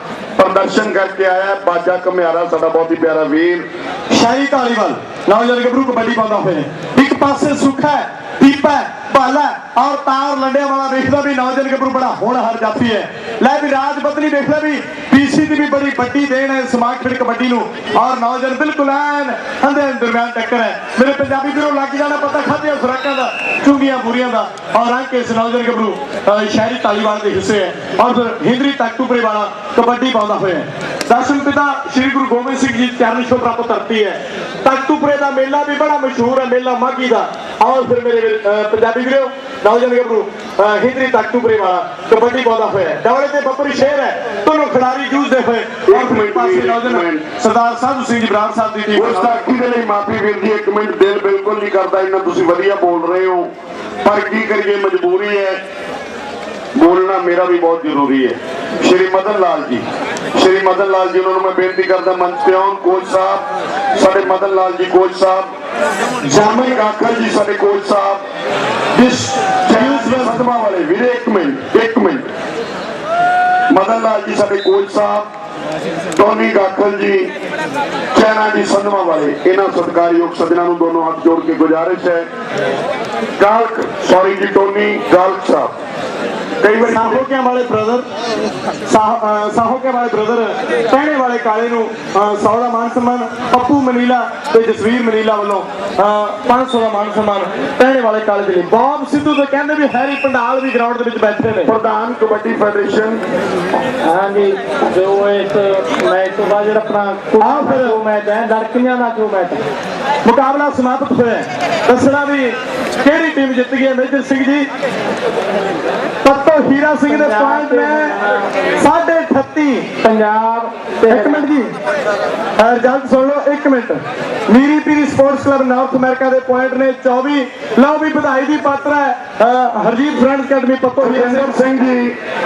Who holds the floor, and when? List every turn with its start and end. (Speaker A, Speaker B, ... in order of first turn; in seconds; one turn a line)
Speaker A: 0.4-3.6
Speaker B: 4.1-49.3
Speaker A: 45.9-47.2
Speaker A: 48.9-53.5
Speaker A: 54.0-55.6
Speaker A: 56.7-65.5
Speaker B: 66.2-66.8
Speaker A: 66.3-68.2
Speaker B: 68.9-70.4
Speaker A: 69.7-72.3
Speaker A: 73.7-75.3
Speaker A: 76.1-77.3
Speaker A: 78.1-82.3
Speaker A: 83.4-85.7
Speaker A: 86.6-87.2
Speaker B: 86.8-88.0
Speaker B: 88.9-101.7
Speaker A: 101.6-103.2
Speaker C: 104.0-109.6
Speaker B: 107.4-108.0
Speaker B: 110.2-114.7
Speaker B: 116.2-118.2
Speaker C: 117.1-118.5
Speaker B: 118.8-119.9
Speaker C: 120.0-121.5
Speaker B: 121.1-121.7
Speaker B: 122.6-131.5
Speaker A: 131.0-132.2